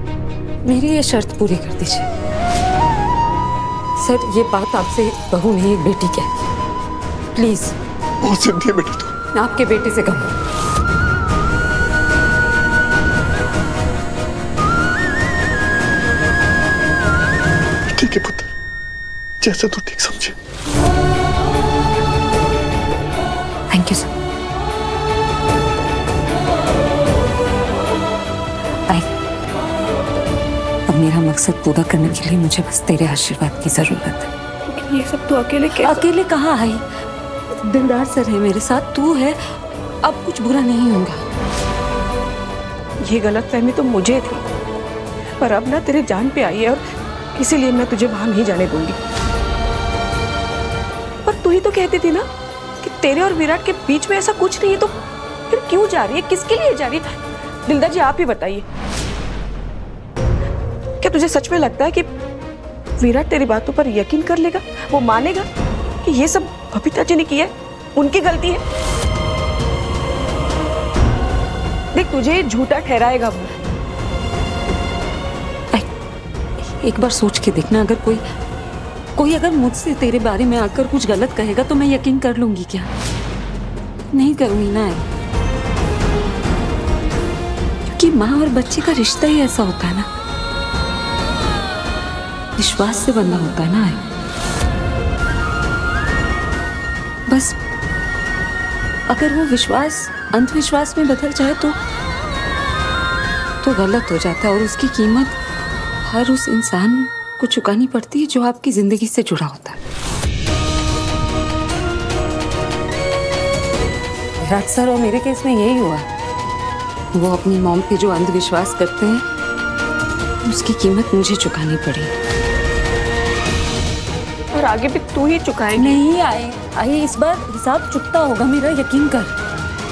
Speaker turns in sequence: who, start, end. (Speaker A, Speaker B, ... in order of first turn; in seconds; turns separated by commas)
Speaker A: 0.6-2.1, Speaker A: 4.0-6.5, Speaker A: 7.3-7.7, Speaker B: 8.2-9.1, Speaker A: 9.3-10.3, Speaker B: 17.9-18.5, Speaker B: 19.4-20.3, Speaker A: 23.7-24.1, Speaker A: 30.9-34.3, Speaker C: 34.7-36.0, Speaker A: 35.8-36.8, Speaker A: 37.5-41.2, Speaker C: 43.0-44.4, Speaker C: 45.4-46.8, Speaker C: 47.3-49.0, Speaker C: 51.2-52.2, Speaker C: 52.8-54.9, Speaker C: 55.5-58.6, Speaker C: 61.0-62.1, Speaker C: 63.0-65.4, Speaker C: 66.0-68.6, Speaker C: 71.9-73.5, Speaker A: 76.6-78.2, Speaker A: 79.2-82.9, Speaker A: 84.1-85.1, Speaker A: 88.0-90.1, Speaker A: 92.5-94.0, Speaker A: 97.3-97.6, Speaker A: 99.1-101.8, Speaker A: 103.6-105.4, Speaker A: 106.0-109.8, Speaker A: 114.4-116.0, Speaker A: 117.1-119.2, Speaker A: 120.4-122.1, Speaker C: 124.5-126.0, Speaker A: 125.8-129.3